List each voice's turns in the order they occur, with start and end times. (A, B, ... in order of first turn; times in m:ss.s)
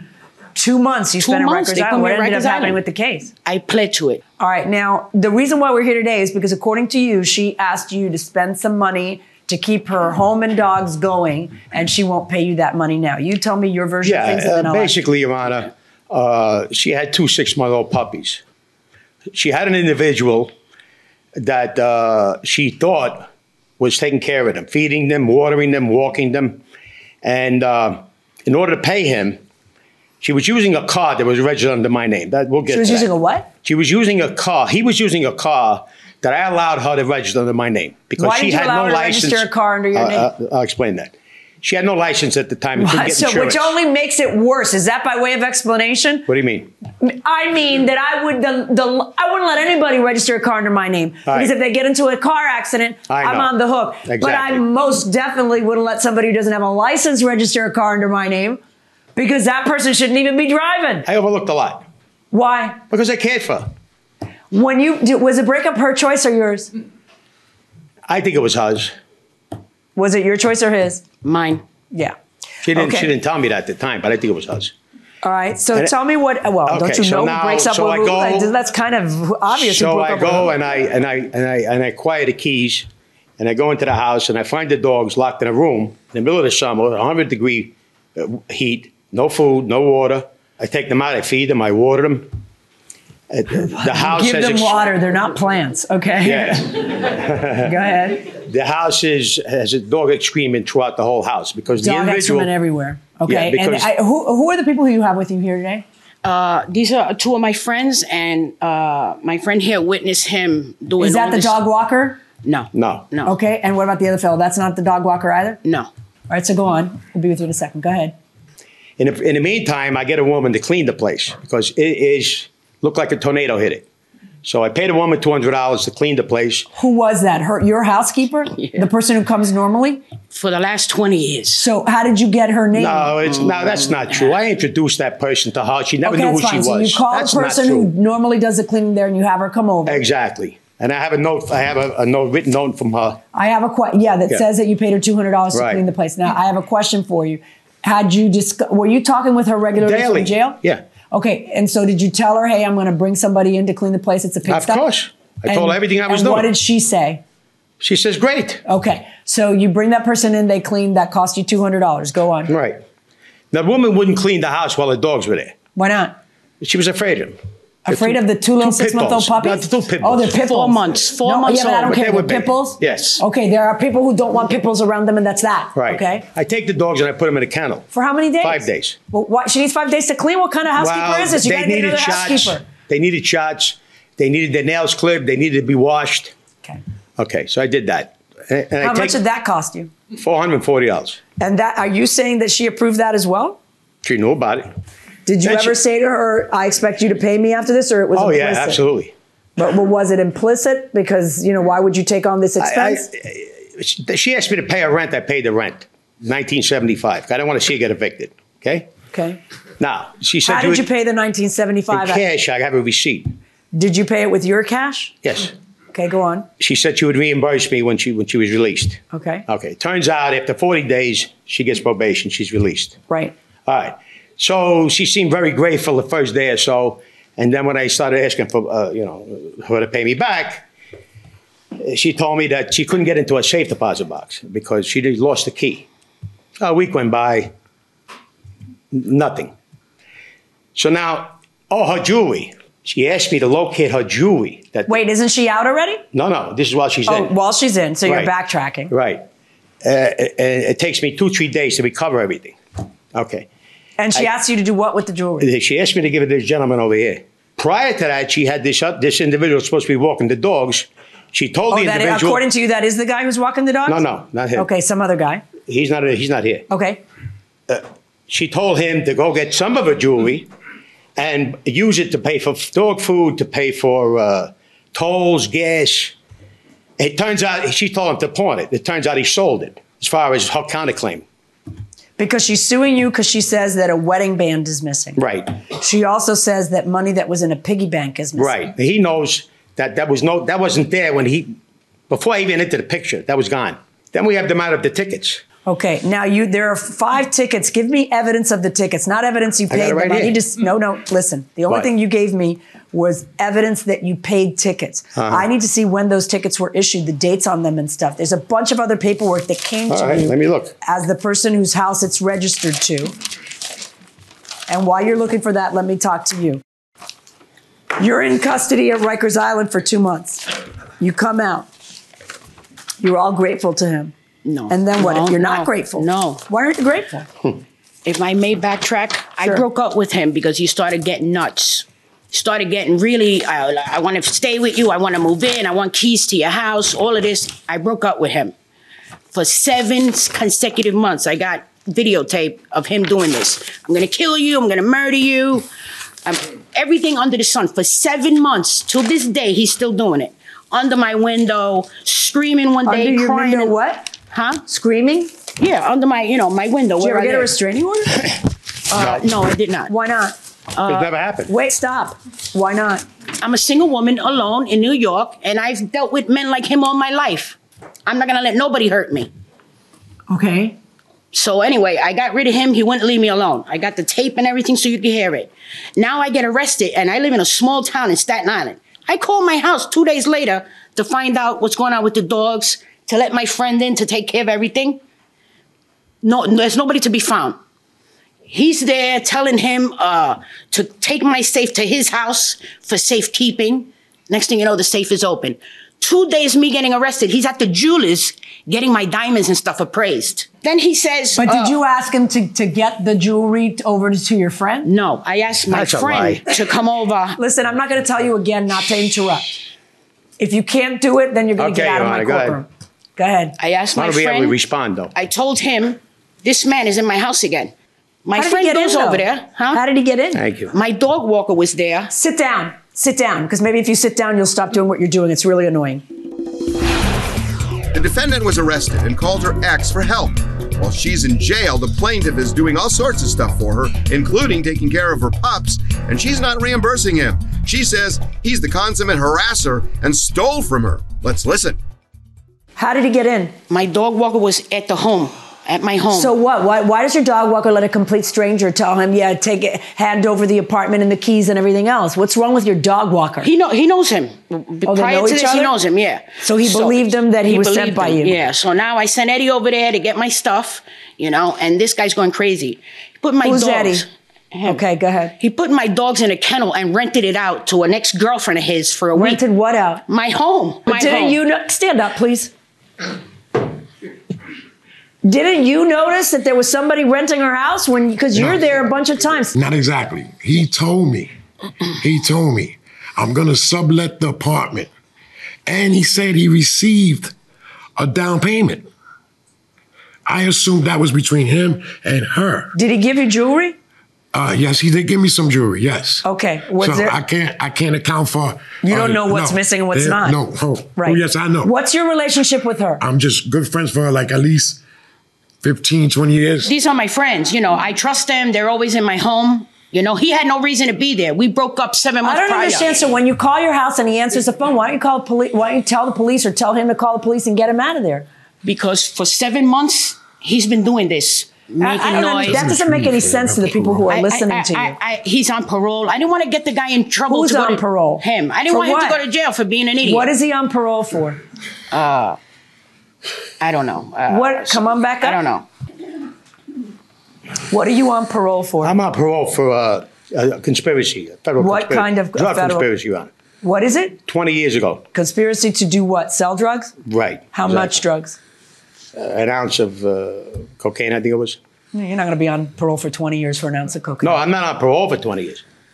0:00.6-0:03.3 A
0:01.2-0:02.8 B
0:03.4-0:04.2 B
0:04.4-0:14.9 A
0:14.0-0:18.4 C
0:19.3-0:20.5 C
0:21.4-0:26.6 C
0:27.2-0:29.4 C
0:30.2-0:33.1 C
0:32.7-0:33.5 A
0:33.6-0:43.7 C
0:38.2-0:40.3 A
0:42.8-0:46.2 A
0:46.3-0:46.7 C
0:47.0-0:58.6 A
0:51.3-0:51.5 C
0:53.1-0:53.5 C
0:54.0-0:54.6 C
0:59.2-1:01.0 A
1:01.0-1:01.9 C
1:02.3-1:02.8 A
1:02.9-1:03.7 C
1:04.5-1:06.7 A
1:08.1-1:08.9 C
1:10.0-1:11.0 A
1:11.2-1:11.6 B
1:12.6-1:14.7 C
1:12.7-1:13.1 A
1:15.2-1:20.5 A
1:16.6-1:18.5 C
1:19.5-1:22.9 C
1:23.4-1:32.3 C
1:33.3-1:34.8 C
1:33.6-1:37.0 A
1:36.2-1:37.7 C
1:37.6-1:38.3 A
1:38.3-1:42.5 C
1:41.8-1:45.8 A
1:43.2-1:43.9 C
1:46.2-1:51.6 B
1:51.0-1:52.2 A
1:52.4-1:53.3 B
1:52.7-1:53.1 C
1:53.2-1:55.6 A
1:55.6-1:55.9 B
1:56.3-1:58.1 A
1:59.0-2:03.8 C
2:04.4-2:06.7 C
2:06.7-2:10.0 A
2:10.3-2:11.7 B
2:11.6-2:13.2 A
2:12.7-2:17.9 C
2:13.3-2:14.4 B
2:16.0-2:20.0 A
2:19.8-2:23.2 C
2:23.3-2:34.8 A
2:25.5-2:25.8 C
2:29.8-2:30.8 C
2:34.5-2:36.5 C
2:35.5-2:37.2 A
2:37.8-2:38.6 C
2:38.6-2:42.5 A
2:42.5-2:42.8 C
2:43.5-2:45.6 C
2:45.8-2:46.1 A
2:46.6-2:47.4 C
2:47.8-2:56.2 A
2:47.9-2:50.3 C
2:50.5-2:52.0 B
2:51.8-2:53.2 C
2:55.7-2:59.0 C
2:57.9-3:02.6 A
3:00.8-3:06.3 C
3:07.2-3:09.2 C
3:08.8-3:09.9 A
3:10.1-3:11.2 C
3:11.4-3:13.6 A
3:14.0-3:14.7 C
3:15.2-3:18.8 A
3:15.4-3:15.8 C
3:18.1-3:19.1 C
3:19.6-3:23.1 A
3:22.6-3:28.9 C
3:29.1-3:29.4 A
3:29.8-3:30.8 C
3:30.4-3:32.2 A
3:31.9-3:33.3 C
3:33.7-3:35.2 A
3:35.2-3:35.5 C
3:35.9-3:36.5 A
3:36.6-3:43.0 C
3:39.1-3:39.4 A
3:43.1-3:43.3 A
3:43.6-3:50.6 C
3:51.8-3:55.9 C
3:56.6-3:57.5 C
3:58.9-3:59.5 C
4:00.8-4:05.0 C
4:04.9-4:06.0 A
4:06.1-4:07.3 C
4:07.1-4:08.9 A
4:08.0-4:08.3 C
4:08.9-4:09.2 C
4:09.8-4:12.6 C
4:13.1-4:13.5 C
4:14.0-4:15.5 A
4:15.4-4:22.4 C
4:21.7-4:24.0 A
4:23.8-4:24.7 C
4:24.5-4:25.4 A
4:25.7-4:26.6 C
4:26.7-4:27.0 A
4:27.7-4:30.5 C
4:31.2-4:36.1 C
4:37.0-4:41.2 C
4:42.2-4:48.5 A
4:45.2-4:45.5 C
4:48.4-4:51.6 C
4:52.1-4:55.4 C
4:55.6-5:13.1 A
4:59.7-5:00.4 C
5:05.2-5:05.5 C
5:09.9-5:10.7 C
5:14.7-5:16.6 A
5:18.0-5:20.4 A
5:21.0-5:21.7 A
5:23.0-5:24.1 A
5:24.4-5:26.4 B
5:24.7-5:27.3 A
5:28.0-5:38.5 B
5:39.3-5:45.7 B
5:46.2-5:53.8 B
5:52.8-5:54.1 A
5:54.3-5:54.6 B
5:54.6-5:55.3 A
5:55.6-5:57.5 B
5:57.0-5:58.3 A
5:58.9-5:59.9 B
5:58.9-5:59.2 C
5:59.9-6:00.4 A
6:00.7-6:01.1 B
6:00.8-6:01.5 C
6:01.5-6:03.0 A
6:03.4-6:09.3 B
6:10.3-6:10.8 A
6:11.3-6:25.0 B
6:26.2-6:27.6 B
6:28.5-6:41.8 B
6:41.4-6:44.9 A
6:44.8-6:47.4 B
6:45.7-6:46.4 C
6:47.4-6:49.6 A
6:50.4-6:53.5 A
6:51.6-6:52.6 C
6:53.6-6:54.6 B
6:53.9-6:55.1 C
6:55.1-6:57.7 B
6:58.2-6:59.8 B
6:58.3-7:00.4 A
7:00.3-7:00.7 C
7:00.7-7:02.1 B
7:02.1-7:06.0 A
7:07.9-7:21.8 D
7:22.8-7:23.5 A
7:23.7-7:26.3 B
7:26.1-7:33.5 A
7:33.4-7:44.8 B
7:34.8-7:35.7 A
7:36.4-7:38.4 A
7:43.4-7:44.0 A
7:44.6-7:45.3 A
7:45.4-7:49.4 B
7:49.1-7:50.0 A
7:50.1-7:51.4 B
7:50.9-7:52.5 A
7:55.2-7:59.5 A
7:59.5-8:01.3 E
8:02.0-8:04.9 E
8:05.6-8:07.3 E
8:08.0-8:08.9 E
8:10.2-8:12.7 E
8:12.7-8:13.8 A
8:14.3-8:16.2 E
8:16.2-8:17.2 A
8:16.8-8:21.7 E
8:18.8-8:20.4 A
8:21.0-8:23.0 A
8:23.0-8:24.8 E
8:25.6-8:26.7 E
8:26.6-8:33.0 B
8:32.2-8:38.3 A
8:38.6-8:42.7 B
8:41.8-8:45.0 A
8:42.9-8:43.8 E
8:44.1-8:50.3 B
8:47.3-8:49.2 A
8:50.0-8:51.4 A
8:51.9-8:52.4 B
8:53.6-8:55.6 B
8:54.3-8:55.4 A
8:57.7-8:58.9 A
8:58.8-9:03.3 C
9:01.6-9:02.9 A
9:03.6-9:04.2 A
9:04.3-9:05.0 C
9:05.1-9:06.9 A
9:07.0-9:08.0 C
9:07.5-9:08.4 A
9:09.2-9:11.6 C
9:11.9-9:14.4 A
9:14.2-9:15.6 C